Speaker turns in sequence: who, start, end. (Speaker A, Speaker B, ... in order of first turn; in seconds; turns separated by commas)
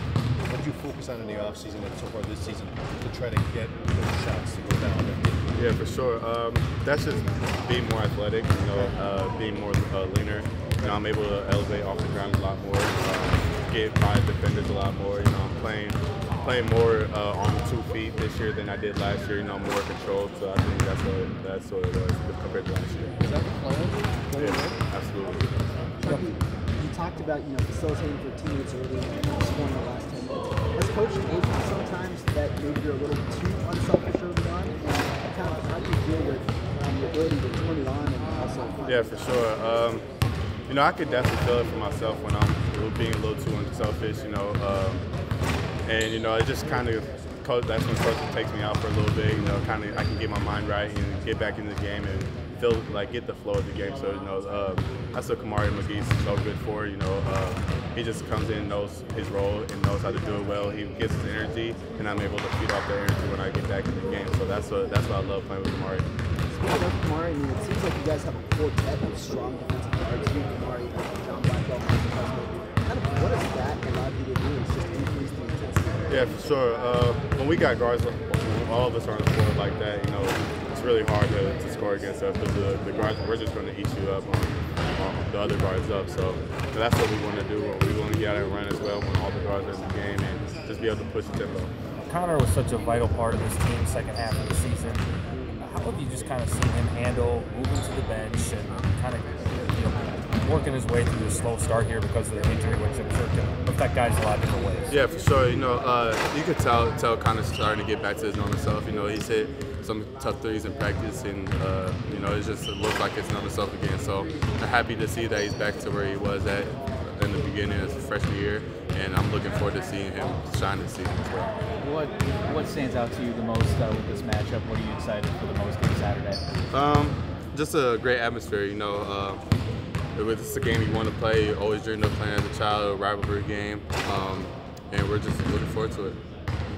Speaker A: 0.4-5.6, Speaker B: 5.5-23.2, Speaker A: 23.2-24.8, Speaker B: 24.4-25.5, Speaker C: 26.0-39.5, Speaker B: 38.9-40.0, Speaker B: 40.7-45.0, Speaker B: 45.8-66.0, Speaker C: 66.5-76.4, Speaker B: 76.1-91.7, Speaker D: 92.0-95.0, Speaker D: 95.6-104.9, Speaker B: 104.9-121.5, Speaker E: 121.8-126.5, Speaker B: 126.7-129.4, Speaker B: 130.1-136.2